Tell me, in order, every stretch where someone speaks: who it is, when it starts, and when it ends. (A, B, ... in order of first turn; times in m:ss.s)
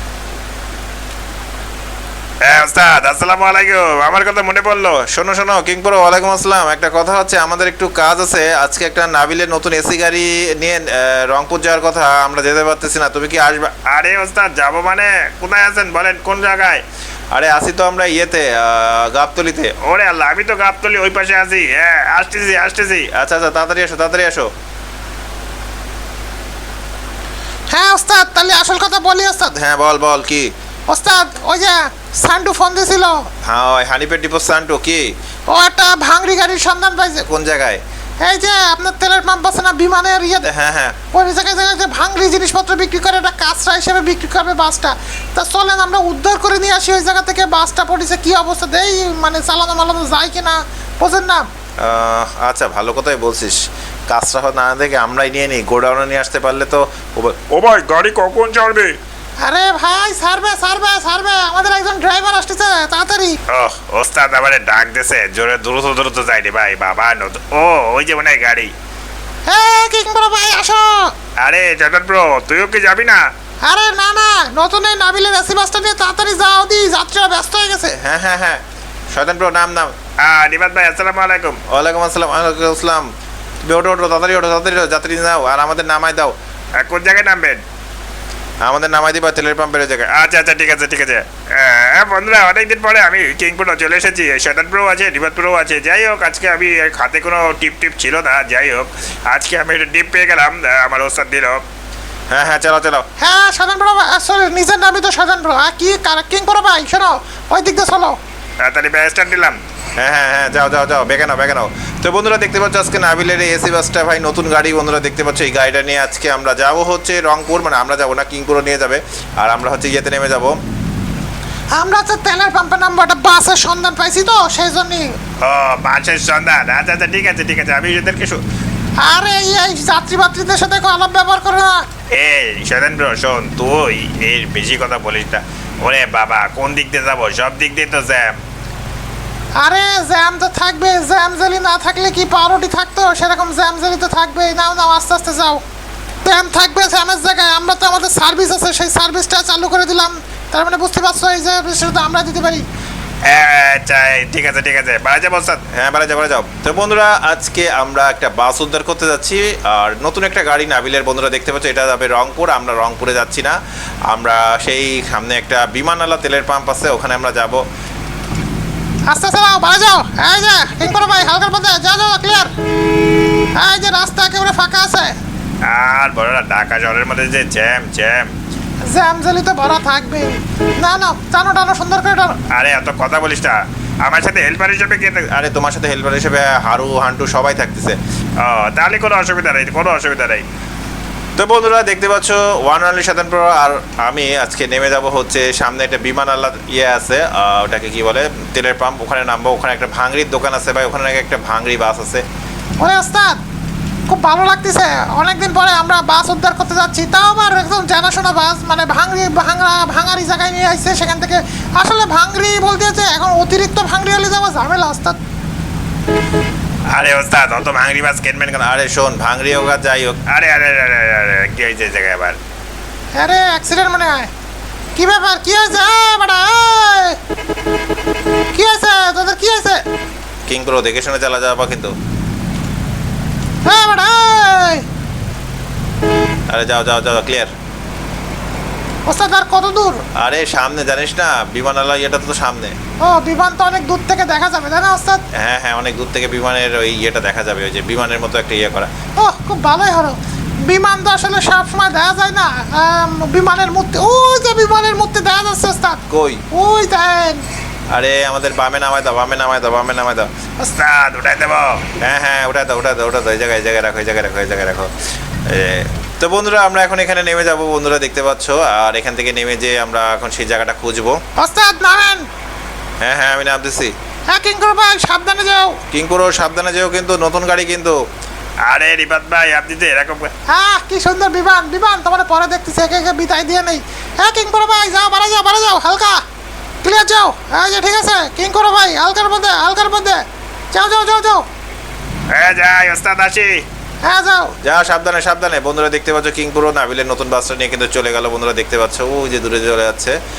0:02.4-0:05.1 A
0:05.1-0:13.8 B
0:13.8-0:16.8 A
0:17.3-0:19.7 B
0:19.8-0:23.0 A
0:23.0-0:24.5 B
0:27.7-0:29.5 C
0:29.5-0:30.5 B
0:30.9-0:33.2 C
0:33.4-0:35.1 B
0:35.5-0:37.2 C
0:37.2-0:37.8 B
0:38.2-0:40.5 C
0:40.4-0:41.0 B
0:41.1-0:51.5 C
0:51.8-0:57.4 B
0:57.5-0:59.0 A
0:59.4-1:03.4 C
1:03.5-1:08.7 A
1:09.5-1:11.1 C
1:11.4-1:13.3 A
1:13.6-1:17.9 C
1:18.0-1:20.0 B
1:20.2-1:21.6 A
1:21.6-1:23.1 B
1:23.6-1:26.3 B
1:26.8-1:27.6 A
1:28.6-1:30.2 B
1:30.2-1:41.6 A
1:42.3-1:43.0 B
1:43.2-1:48.2 C
1:48.6-1:49.6 A
1:50.0-2:00.6 B
2:01.7-2:05.1 C
2:05.4-2:08.4 A
2:09.0-2:11.8 C
2:12.1-2:18.4 A
2:19.6-2:25.6 C
2:26.2-2:32.6 C
2:33.3-2:35.6 A
2:35.6-2:43.6 B
2:44.1-2:47.6 B
2:49.1-2:52.5 C
2:53.5-2:55.2 C
2:55.7-2:58.3 A
2:58.8-3:02.4 C
3:02.5-3:05.3 A
3:05.2-3:08.0 B
3:08.4-3:10.4 A
3:11.4-3:22.2 B
3:22.8-3:23.4 C
3:24.1-3:35.2 C
3:37.0-3:40.3 B
3:37.1-3:38.2 A
3:40.3-3:42.4 A
3:43.2-3:44.3 C
3:45.0-3:47.2 C
3:48.5-3:49.8 C
3:50.5-3:51.9 B
3:53.6-3:54.8 C
3:56.5-3:57.5 B
3:59.0-4:00.0 C
4:00.2-4:02.8 B
4:03.0-4:05.2 C
4:05.3-4:08.9 B
4:09.2-4:17.4 C
4:16.1-4:16.4 B
4:17.9-4:20.3 B
4:20.6-4:21.8 A
4:21.9-4:24.9 B
4:25.5-4:31.2 B
4:31.4-4:32.2 C
4:33.0-4:33.9 B
4:34.3-4:35.8 C
4:35.9-4:38.0 B
4:38.6-4:40.3 A
4:40.5-4:46.2 C
4:46.8-4:51.4 C
4:52.3-4:53.6 A
4:54.0-4:54.5 C
4:54.6-5:00.2 B